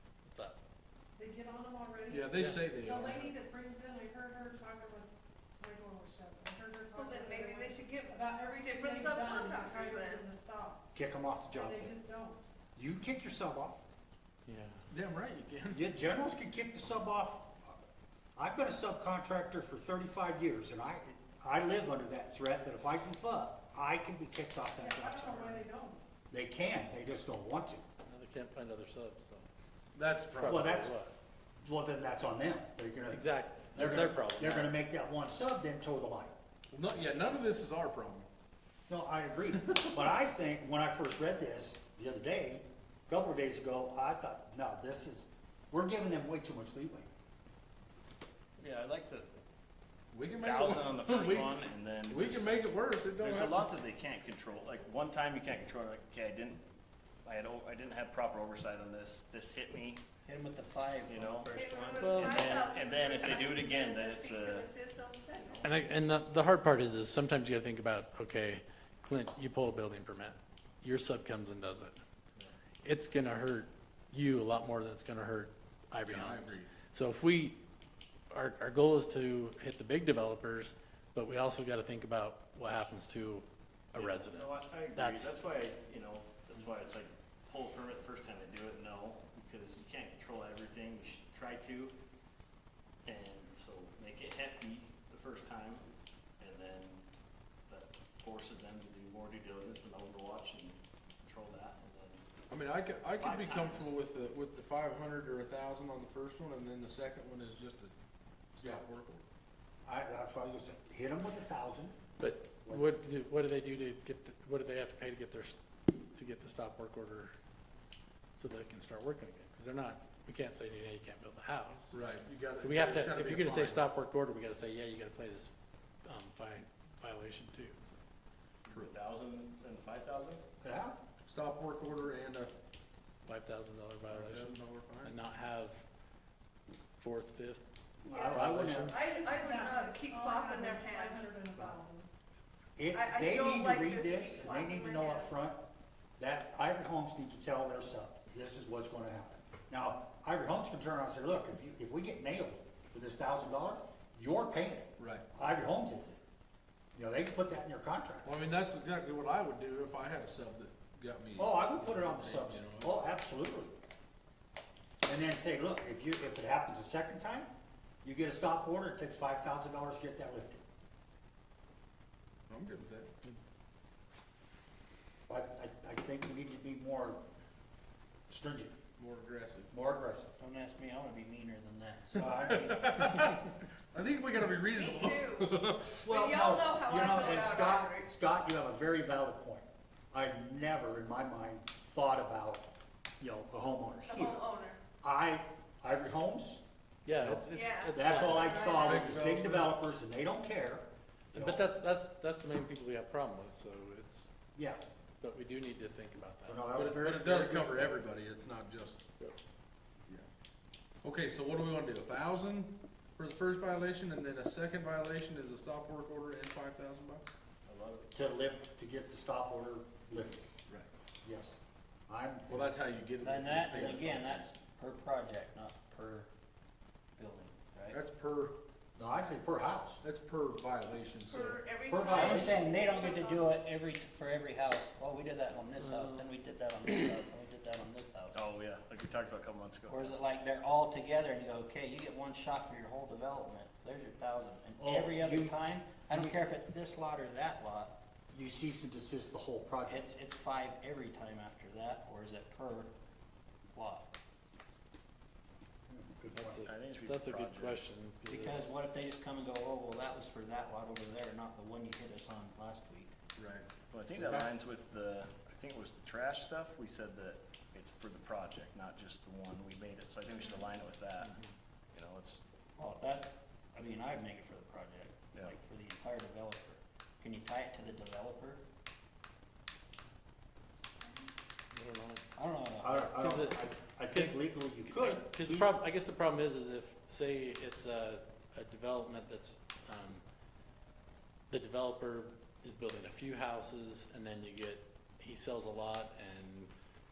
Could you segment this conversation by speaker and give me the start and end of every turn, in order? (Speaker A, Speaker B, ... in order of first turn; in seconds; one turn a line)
Speaker A: 0.2-0.6
Speaker B: 1.1-10.8
Speaker C: 2.1-3.3
Speaker A: 2.3-2.6
Speaker D: 6.9-10.3
Speaker E: 10.9-11.9
Speaker B: 11.5-12.4
Speaker E: 12.8-13.8
Speaker A: 14.4-14.8
Speaker C: 14.9-15.9
Speaker E: 15.7-17.7
Speaker E: 18.4-25.6
Speaker B: 24.8-26.0
Speaker E: 26.3-27.8
Speaker A: 28.0-29.4
Speaker C: 29.9-30.7
Speaker A: 30.3-31.1
Speaker E: 30.5-30.9
Speaker E: 31.6-36.3
Speaker A: 33.1-34.8
Speaker C: 36.7-38.3
Speaker E: 38.9-47.1
Speaker F: 48.6-49.3
Speaker C: 50.1-53.7
Speaker F: 50.4-52.5
Speaker F: 53.2-56.6
Speaker F: 57.2-60.0
Speaker G: 60.2-62.6
Speaker F: 61.1-61.5
Speaker D: 61.5-65.7
Speaker A: 62.0-62.8
Speaker F: 62.3-64.7
Speaker A: 65.6-72.0
Speaker A: 72.8-77.6
Speaker C: 76.0-76.7
Speaker A: 78.3-85.4
Speaker F: 83.9-91.9
Speaker F: 93.0-95.8
Speaker F: 96.4-97.0
Speaker F: 97.7-102.2
Speaker C: 102.5-107.9
Speaker F: 103.1-104.0
Speaker C: 108.5-109.2
Speaker E: 109.8-112.0
Speaker A: 112.2-115.6
Speaker E: 112.6-112.9
Speaker A: 116.1-117.3
Speaker A: 118.4-122.0
Speaker C: 121.9-123.9
Speaker A: 122.6-125.5
Speaker A: 126.0-128.0
Speaker F: 128.7-130.4
Speaker C: 128.7-128.9
Speaker E: 130.6-131.0
Speaker C: 131.2-132.5
Speaker A: 133.2-135.8
Speaker C: 134.1-135.1
Speaker A: 136.7-137.6
Speaker E: 138.0-139.0
Speaker B: 138.2-142.1
Speaker A: 138.3-139.0
Speaker D: 138.9-141.3
Speaker E: 142.8-145.6
Speaker D: 142.9-145.3
Speaker E: 146.2-156.2
Speaker C: 155.0-155.3
Speaker E: 156.9-158.4
Speaker C: 158.2-163.1
Speaker E: 161.4-163.7
Speaker E: 165.0-167.5
Speaker E: 168.0-170.6
Speaker C: 172.5-173.1
Speaker E: 175.3-177.2
Speaker E: 178.3-178.8
Speaker C: 179.0-179.7
Speaker E: 179.7-180.3
Speaker G: 180.4-182.5
Speaker C: 182.1-186.0
Speaker E: 182.2-182.8
Speaker D: 184.7-188.1
Speaker E: 186.0-192.7
Speaker E: 193.2-194.5
Speaker D: 194.1-194.8
Speaker E: 195.0-196.6
Speaker A: 197.0-198.9
Speaker E: 197.1-197.4
Speaker D: 197.5-199.2
Speaker E: 197.9-201.7
Speaker C: 198.8-199.7
Speaker A: 201.3-204.3
Speaker E: 204.5-204.8
Speaker A: 205.2-206.7
Speaker E: 206.4-207.8
Speaker C: 206.7-209.0
Speaker C: 211.0-217.3
Speaker F: 217.7-218.4
Speaker E: 218.1-220.4
Speaker E: 221.2-222.7
Speaker C: 222.5-224.5
Speaker G: 223.2-226.3
Speaker G: 227.2-228.0
Speaker C: 227.9-228.6
Speaker E: 229.0-230.0
Speaker C: 230.0-231.6
Speaker D: 231.2-233.6
Speaker E: 231.9-232.6
Speaker G: 232.1-238.4
Speaker A: 235.9-236.2
Speaker F: 238.3-240.2
Speaker G: 239.9-247.9
Speaker E: 244.8-245.6
Speaker E: 246.1-246.4
Speaker E: 248.3-250.1
Speaker G: 249.9-252.9
Speaker G: 253.7-254.1
Speaker E: 255.9-256.7
Speaker A: 256.3-258.7
Speaker F: 256.6-257.8
Speaker G: 258.3-263.2
Speaker C: 263.4-263.7
Speaker F: 263.9-271.4
Speaker E: 264.1-264.5
Speaker A: 271.2-271.5
Speaker F: 271.9-272.4
Speaker G: 272.8-278.6
Speaker A: 281.7-282.2
Speaker G: 282.4-283.1
Speaker E: 282.8-285.8
Speaker A: 283.0-290.2
Speaker A: 291.5-296.7